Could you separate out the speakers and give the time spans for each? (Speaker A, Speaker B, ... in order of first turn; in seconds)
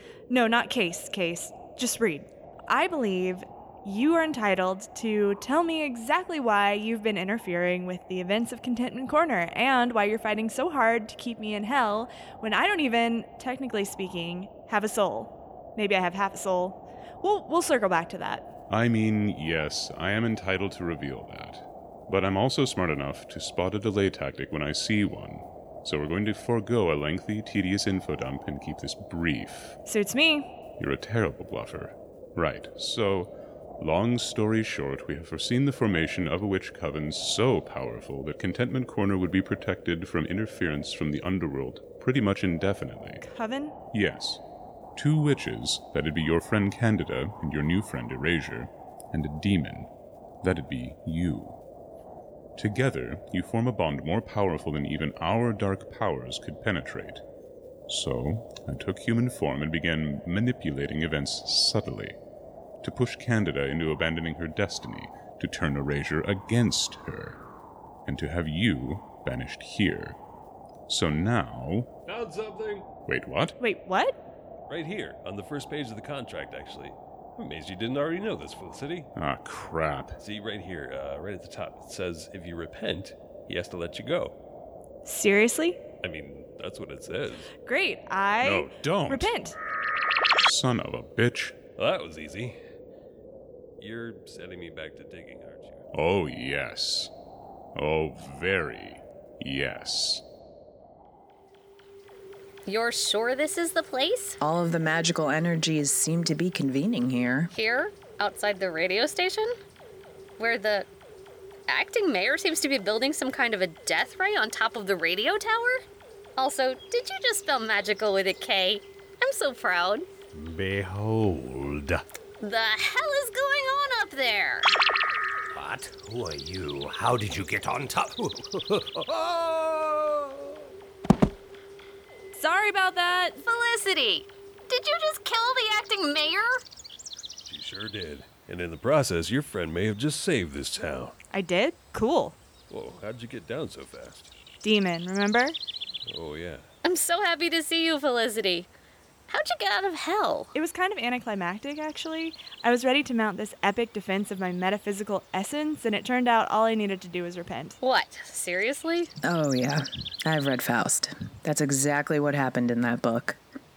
Speaker A: 0.3-18.5, 29.9-30.5, 43.2-43.8, 73.6-74.2, 85.0-85.8, 87.7-89.5, 132.3-133.4, 141.3-142.4, 144.6-145.6, 150.5-157.8
Speaker B: 18.7-29.8, 30.8-43.2, 43.9-44.4, 45.0-49.9, 50.4-51.6, 52.6-57.2, 57.9-62.2, 62.8-67.4, 68.1-70.2, 70.9-71.9, 73.1-73.6, 79.2-80.2, 88.4-89.3, 90.4-91.6, 95.9-97.1, 97.8-100.2
Speaker C: 72.1-72.9, 74.7-79.1, 80.2-84.3, 86.0-87.5, 91.8-92.6, 93.8-95.8, 137.5-141.2, 142.7-144.3, 146.1-146.7
Speaker D: 102.7-104.4, 107.5-109.5, 110.4-110.9, 111.7-115.8, 116.4-120.1, 122.4-124.7, 133.4-136.6, 146.8-148.7, 149.3-150.5, 157.8-159.1
Speaker E: 104.4-107.5, 159.2-163.4
Speaker F: 120.3-122.0, 125.5-130.6